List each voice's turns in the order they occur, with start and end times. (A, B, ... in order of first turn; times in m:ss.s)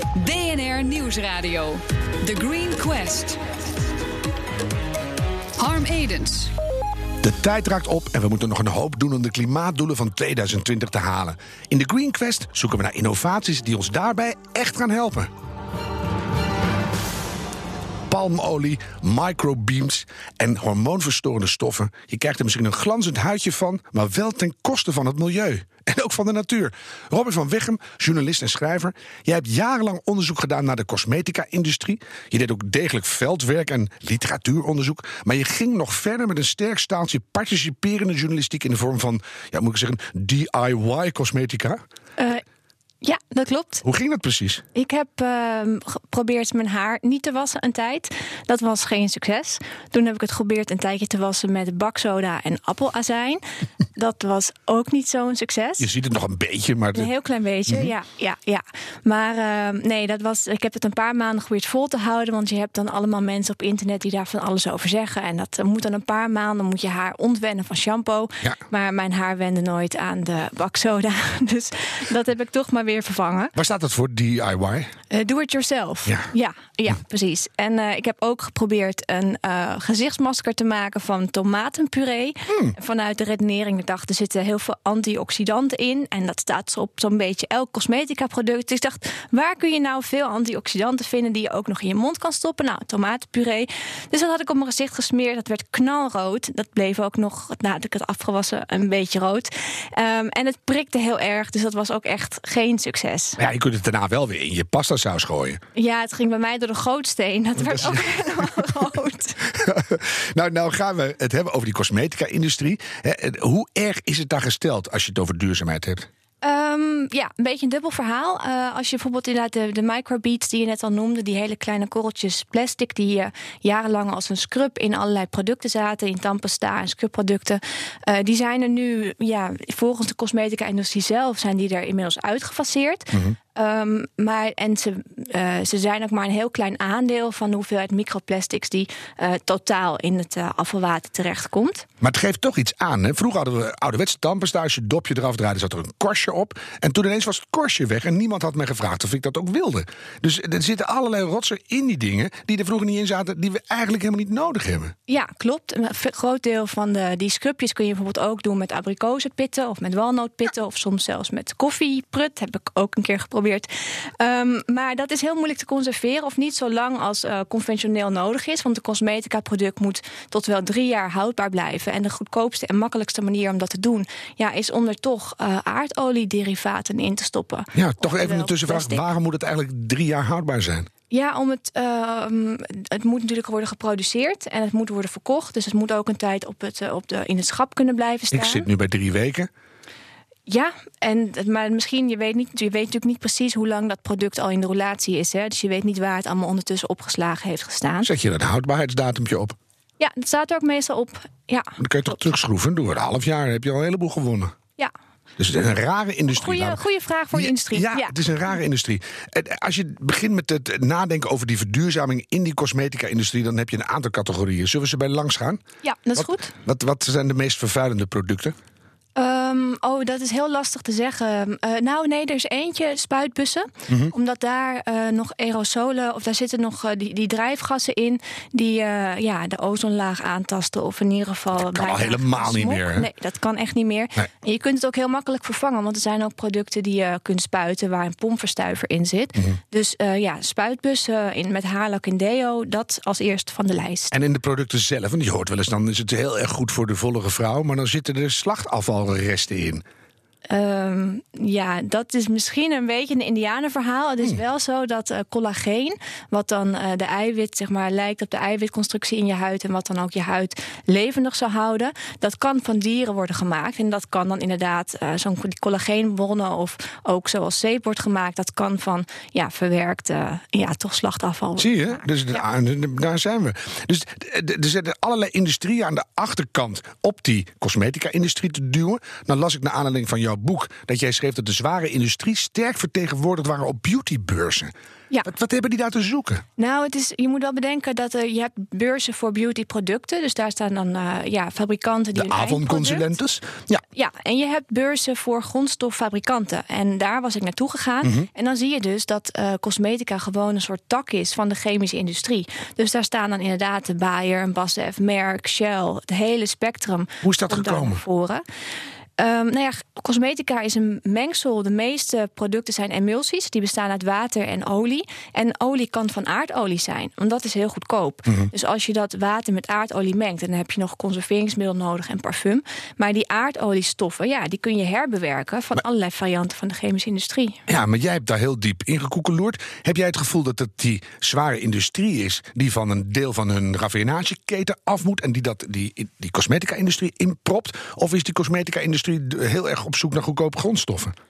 0:00.2-0:03.4 A
0:05.6-0:06.5 A
0:07.2-0:15.3 B
0:18.1-0:41.8 B
0:42.2-0:42.4 C
0:43.0-0:43.8 C
0:43.8-0:44.6 B
0:44.8-0:53.4 C
0:54.0-0:55.9 C
0:55.8-0:57.1 B
0:57.0-1:13.5 C
1:13.6-1:14.9 B
1:15.1-1:43.4 C
1:22.5-1:22.8 B
1:43.4-1:45.6 B
1:45.8-1:49.4 C
1:47.6-1:48.5 B
1:49.5-1:56.1 B
1:56.4-2:21.9 C
2:22.0-2:34.9 B
2:35.1-2:59.0 C
2:57.8-3:00.9 B
3:01.1-3:08.7 C
3:08.3-3:09.5 B
3:10.5-3:18.1 C
3:18.0-3:19.6 B
3:20.0-3:21.7 C
3:21.8-3:24.6 B
3:25.4-3:35.6 B
3:26.3-3:28.2 C
3:35.8-3:36.5 C
3:36.2-3:38.6 B
3:39.2-4:04.1 C
3:51.6-3:53.1 B
4:04.1-4:09.8 B
4:10.5-4:32.4 C
4:31.6-4:44.7 B
4:45.2-4:46.4 B
4:46.6-4:53.1 C
4:52.1-4:53.8 B
4:54.0-5:08.4 C
4:58.0-4:58.3 B
5:07.2-5:08.0 B
5:09.2-5:27.6 C
5:27.7-5:41.1 B